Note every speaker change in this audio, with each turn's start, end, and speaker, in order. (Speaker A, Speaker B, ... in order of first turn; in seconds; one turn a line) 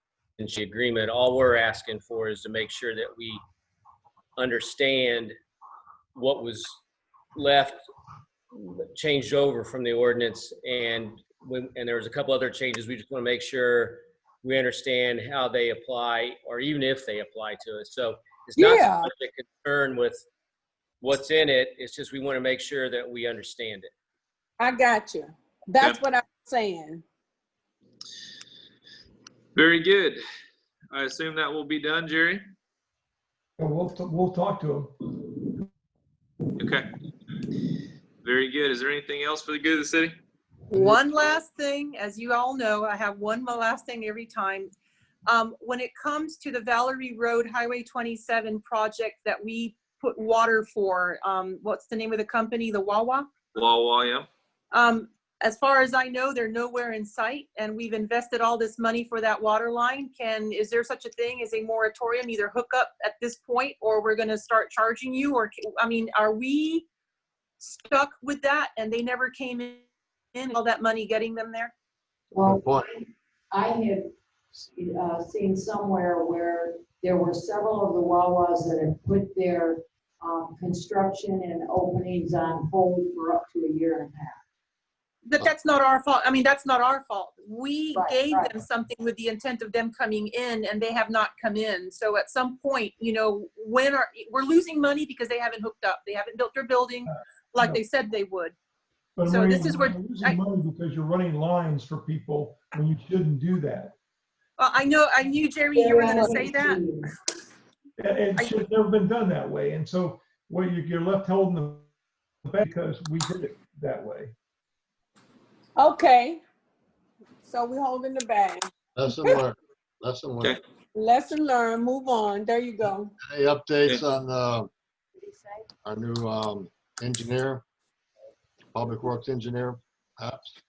Speaker A: 0.4-3.4
Speaker A: 4.4-5.3
Speaker A: 6.1-6.8
Speaker A: 7.3-7.8
Speaker A: 8.5-20.2
Speaker B: 18.6-19.1
Speaker A: 21.0-23.9
Speaker B: 24.6-27.0
Speaker C: 29.5-30.2
Speaker C: 30.9-32.5
Speaker D: 33.6-34.9
Speaker C: 36.6-36.9
Speaker C: 38.2-40.2
Speaker E: 40.7-44.7
Speaker E: 45.3-53.3
Speaker C: 53.5-54.3
Speaker E: 54.7-66.8
Speaker E: 67.6-71.7
Speaker F: 72.3-84.4
Speaker G: 72.3-72.9
Speaker E: 85.2-98.5
Speaker F: 87.9-88.5
Speaker D: 97.1-97.8
Speaker D: 99.2-103.9
Speaker E: 99.3-100.4
Speaker E: 104.6-106.8
Speaker F: 105.7-107.1
Speaker D: 108.0-111.9
Speaker D: 112.4-114.3
Speaker B: 115.8-116.4
Speaker B: 117.4-118.7
Speaker G: 119.0-120.6
Speaker B: 120.9-123.1
Speaker G: 123.2-124.7
Speaker F: 125.2-125.7
Speaker G: 125.8-127.6
Speaker G: 128.7-130.6